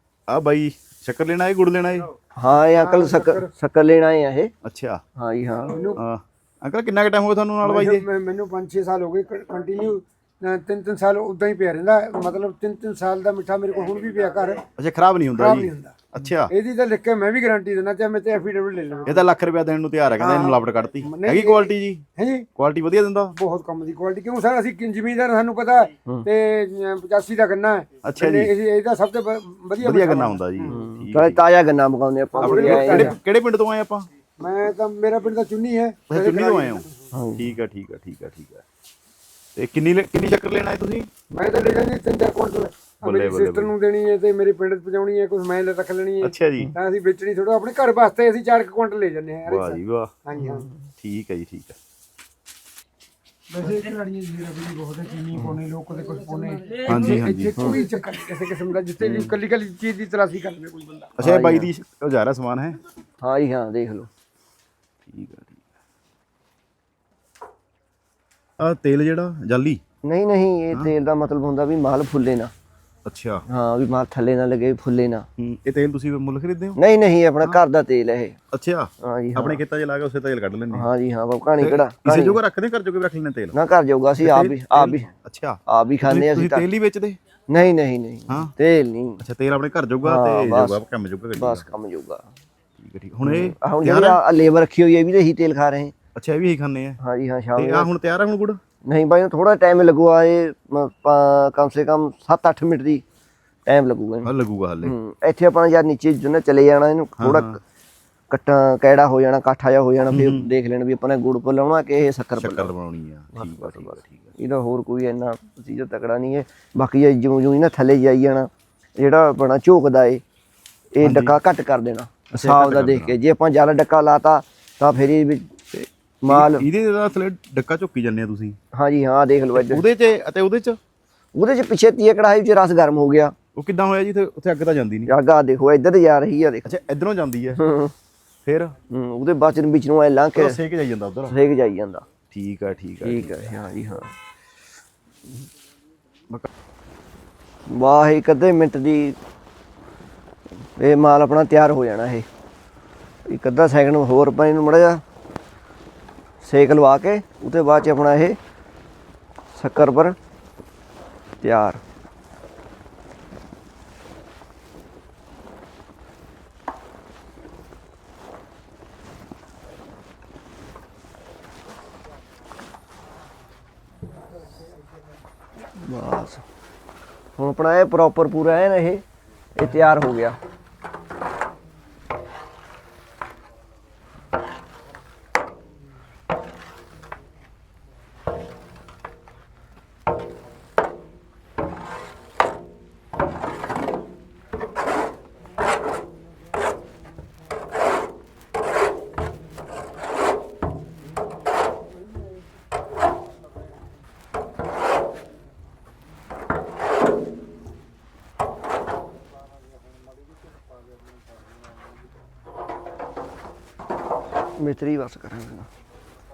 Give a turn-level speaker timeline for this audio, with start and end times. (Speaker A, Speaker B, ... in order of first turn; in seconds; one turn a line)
Speaker A: 0.3-2.1
Speaker B: 2.4-4.5
Speaker C: 2.7-3.5
Speaker A: 4.6-5.0
Speaker B: 5.2-5.8
Speaker C: 5.7-6.0
Speaker A: 6.0-8.1
Speaker C: 7.6-14.6
Speaker A: 14.8-16.5
Speaker C: 15.3-15.9
Speaker C: 16.5-19.2
Speaker A: 19.1-23.4
Speaker C: 20.2-22.5
Speaker C: 23.3-30.8
Speaker A: 28.0-28.5
Speaker A: 29.8-31.4
Speaker B: 30.7-33.1
Speaker C: 32.3-33.1
Speaker A: 32.4-34.1
Speaker C: 34.4-36.9
Speaker A: 36.1-38.6
Speaker B: 37.1-37.5
Speaker A: 39.5-41.1
Speaker C: 41.3-50.7
Speaker A: 43.0-43.7
Speaker A: 46.2-46.7
Speaker A: 49.5-50.1
Speaker B: 50.4-50.7
Speaker A: 51.0-51.8
Speaker C: 53.5-61.1
Speaker A: 56.9-57.6
Speaker A: 59.0-59.4
Speaker A: 61.2-62.8
Speaker B: 61.2-61.7
Speaker B: 63.2-64.1
Speaker A: 65.1-65.6
Speaker A: 68.6-69.8
Speaker B: 70.0-72.5
Speaker A: 73.0-73.4
Speaker B: 73.5-75.2
Speaker A: 75.4-76.8
Speaker B: 76.8-78.4
Speaker A: 78.5-80.9
Speaker B: 79.0-79.6
Speaker B: 80.7-82.4
Speaker A: 81.6-83.5
Speaker B: 83.5-85.1
Speaker A: 84.2-87.2
Speaker B: 85.7-86.7
Speaker B: 87.5-89.2
Speaker A: 89.2-91.6
Speaker B: 90.0-90.8
Speaker B: 91.3-92.3
Speaker A: 92.8-94.2
Speaker B: 93.2-95.9
Speaker A: 96.1-97.0
Speaker B: 97.0-97.9
Speaker A: 97.5-98.6
Speaker B: 98.8-103.0
Speaker B: 103.7-104.3
Speaker A: 104.2-104.9
Speaker B: 104.8-107.6
Speaker A: 107.2-107.6
Speaker B: 108.3-112.7
Speaker A: 110.1-110.5
Speaker A: 112.4-114.3
Speaker B: 113.3-120.2
Speaker B: 120.9-125.5
Speaker A: 121.0-121.4
Speaker A: 122.3-123.2
Speaker A: 125.7-128.6
Speaker B: 126.2-126.7
Speaker B: 128.7-129.8
Speaker A: 129.5-130.8
Speaker B: 131.3-133.3
Speaker A: 133.6-135.1
Speaker B: 135.1-136.7
Speaker A: 136.6-137.6
Speaker B: 137.6-137.9
Speaker A: 138.4-138.7
Speaker B: 138.9-140.6
Speaker A: 140.3-141.3
Speaker B: 141.3-142.0
Speaker A: 142.3-143.5
Speaker B: 143.0-144.1
Speaker B: 147.7-149.2
Speaker B: 150.8-152.2
Speaker B: 153.2-155.0
Speaker B: 156.4-158.4
Speaker B: 159.5-160.2
Speaker B: 161.4-161.8
Speaker B: 175.8-176.4
Speaker B: 177.4-179.0
Speaker B: 179.5-180.4
Speaker B: 214.6-215.7